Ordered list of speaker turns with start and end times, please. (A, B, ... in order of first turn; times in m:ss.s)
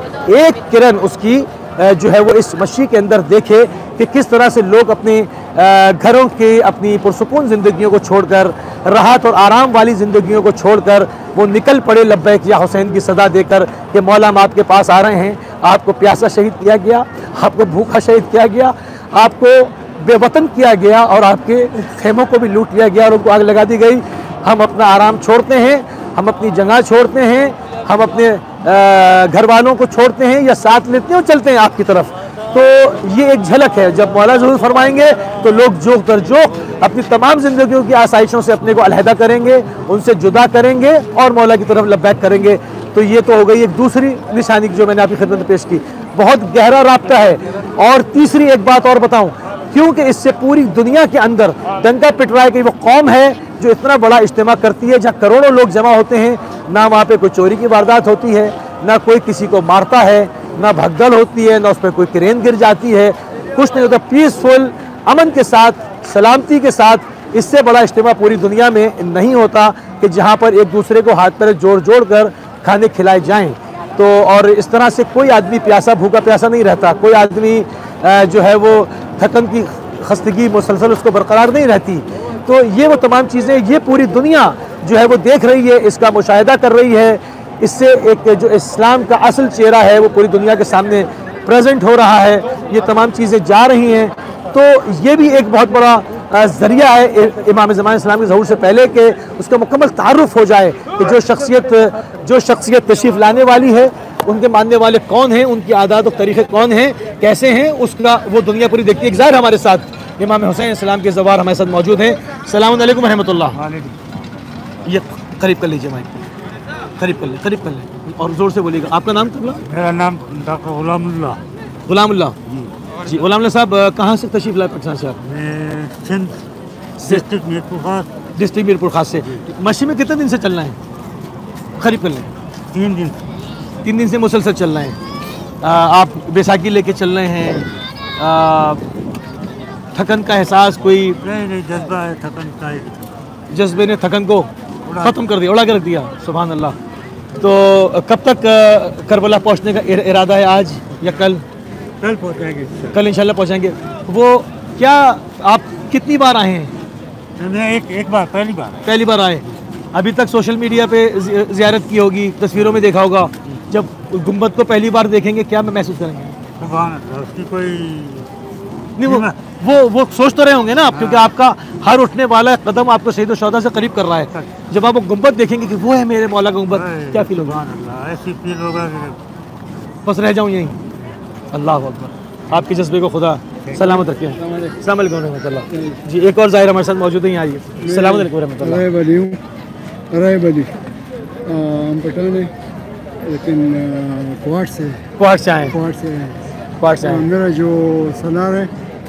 0:00.3-1:53.6 A
1:53.5-1:54.0 B
1:54.9-1:56.2 A
1:57.0-1:59.6 A
1:59.7-2:01.4 B
2:01.9-2:02.4 A
2:03.0-2:05.2 A
2:05.2-2:06.4 B
2:07.0-2:08.1 B
2:08.4-2:10.8 A
2:11.8-2:12.3 A
2:12.7-2:13.2 B
2:13.8-2:15.0 A
2:15.6-2:17.6 A
2:18.2-2:18.8 A
2:20.0-2:21.2 A
2:21.2-2:23.0 B
2:23.5-2:26.8 A
2:24.9-2:25.2 B
2:27.4-2:31.4 A
2:32.0-2:33.0 B
2:32.9-2:36.7 A
2:37.4-2:38.8 B
2:38.8-2:46.4 A
2:46.6-2:48.3 B
2:49.0-2:57.6 A
2:49.0-2:49.4 B
2:50.9-2:51.3 B
2:56.7-2:59.2 B
3:00.0-3:00.8 A
3:01.5-3:08.9 A
3:03.8-3:04.8 C
3:05.7-3:06.0 C
3:07.8-3:09.4 C
3:10.1-3:10.7 C
3:11.4-3:12.5 C
3:13.2-3:15.0 C
3:15.2-3:15.8 A
3:15.7-3:18.7 C
3:16.8-3:17.3 A